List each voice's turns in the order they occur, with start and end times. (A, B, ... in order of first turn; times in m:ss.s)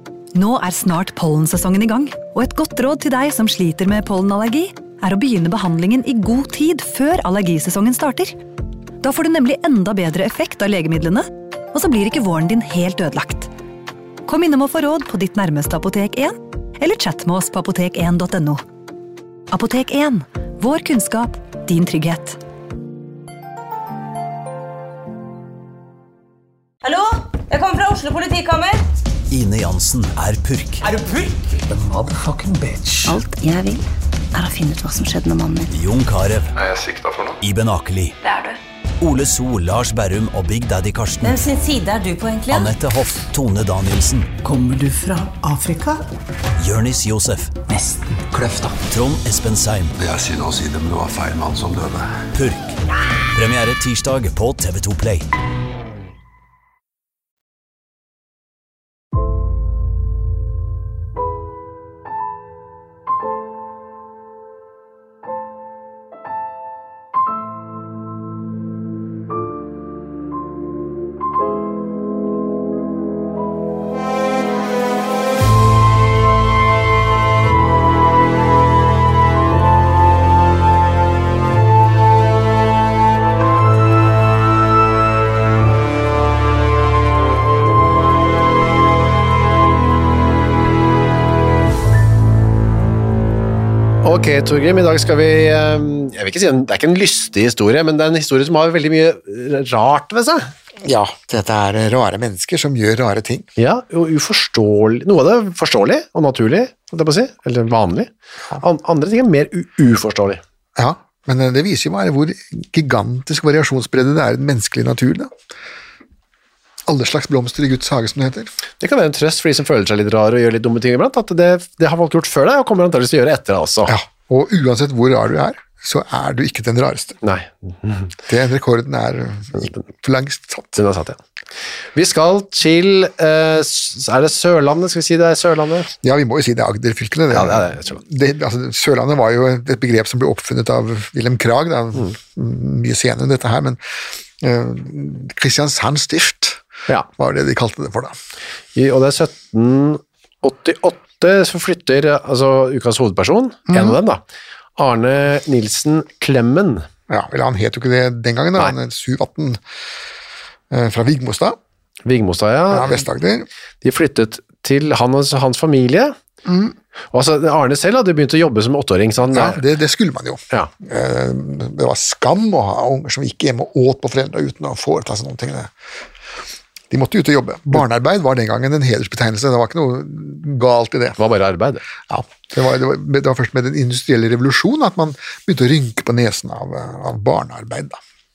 0:00.3-0:08.4 A
0:09.0-0:13.5 A
0:14.3-0:18.6 A
0:19.5-0:22.4 A
0:26.8-0:28.8 B
0:29.3-0:30.8 C
0:30.8-0:33.2 D
0:33.1-0:35.7 E
0:35.7-0:36.5 C
0:36.6-0:37.4 F
0:37.4-0:38.2 C
0:38.2-0:38.6 B
0:39.0-0:41.4 C
0:41.2-0:42.7 B
0:42.5-0:44.3 C
0:44.4-0:46.0 D
0:46.6-0:47.6 C
0:47.7-0:48.8 D
0:48.9-0:50.0 C
0:50.0-0:52.1 F
0:52.3-0:52.8 C
0:53.3-0:55.2 C
1:34.0-1:40.5 G
1:40.8-1:43.5 H
1:43.6-1:50.4 G
1:50.8-1:55.3 H
1:56.9-1:58.5 H
1:58.8-2:04.0 G
2:03.9-2:07.2 H
2:07.2-2:08.1 G
2:08.3-2:10.8 H
2:10.7-2:11.2 G
2:11.9-2:15.9 G
2:16.0-2:23.8 H
2:17.3-2:18.0 G
2:24.4-2:26.6 H
2:27.2-2:28.2 H
2:28.8-2:34.2 G
2:33.7-2:34.0 H
2:34.8-2:36.9 G
2:37.1-2:39.6 H
2:40.7-2:41.6 H
2:42.0-2:43.0 G
2:42.7-2:43.5 H
2:43.8-2:46.1 G
2:46.4-2:46.8 H
2:47.1-2:49.6 G
2:49.3-2:55.7 H
2:56.9-3:01.2 H
3:01.2-3:01.8 G
3:02.1-3:08.0 H